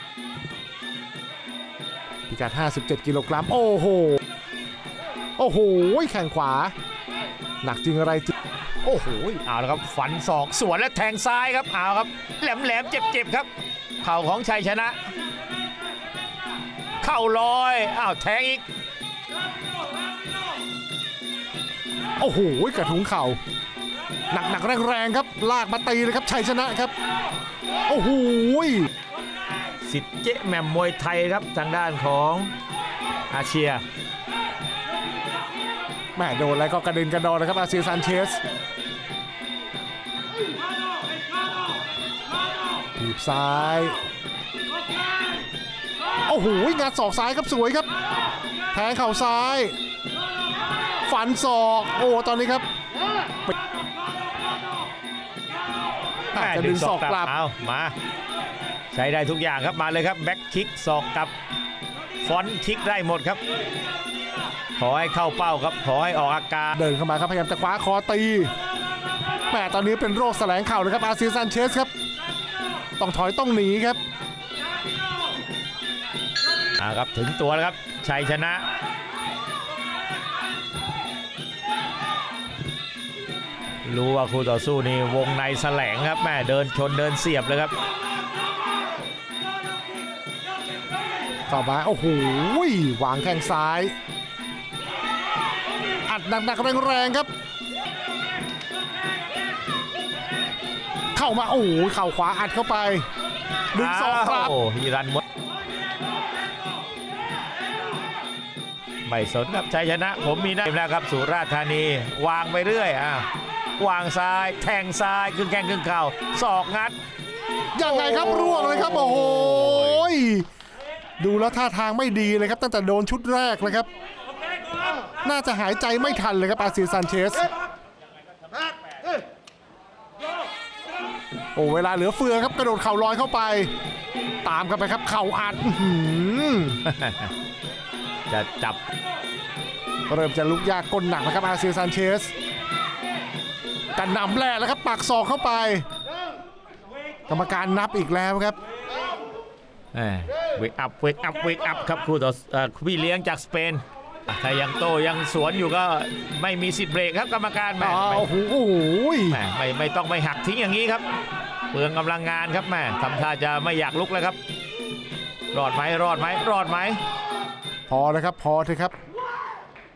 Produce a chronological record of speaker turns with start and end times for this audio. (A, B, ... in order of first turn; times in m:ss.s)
0:02.3-0:04.2 A
0:05.4-0:06.7 A
0:07.6-0:08.3 A
0:08.8-0:13.5 B
0:14.0-0:15.0 B
0:17.0-0:18.6 B
0:22.2-0:23.4 A
0:24.3-0:26.9 A
0:27.9-0:28.9 A
0:29.8-0:32.5 B
0:33.3-0:33.8 B
0:36.2-0:38.4 A
0:43.0-0:44.0 A
0:46.3-0:47.9 A
0:48.7-0:49.8 A
0:51.1-0:52.6 A
0:56.3-0:57.3 A
0:56.3-0:57.9 B
0:58.9-1:01.3 B
1:02.2-1:03.4 B
1:04.8-1:06.8 B
1:06.8-1:08.5 A
1:09.5-1:11.9 A
1:13.0-1:14.0 A
1:16.8-1:18.6 B
1:23.8-1:27.7 B
1:31.5-1:33.9 A
1:36.1-1:37.3 A
1:41.2-1:43.1 A
1:43.7-1:44.6 A
1:43.8-1:45.2 B
1:49.0-1:53.3 B
1:53.8-1:57.0 B
1:57.7-2:00.5 A
2:01.2-2:03.9 A
2:05.2-2:07.5 A
2:11.6-2:13.7 A
2:14.4-2:16.8 A
2:16.8-2:17.3 B
2:18.3-2:18.8 B
2:20.1-2:22.3 A
2:24.0-2:25.9 A
2:27.3-2:28.6 A
2:29.9-2:38.3 B
2:37.8-2:39.4 A
2:39.3-2:41.0 B
2:41.7-2:44.4 B
2:45.5-2:47.0 B
2:47.9-2:48.9 A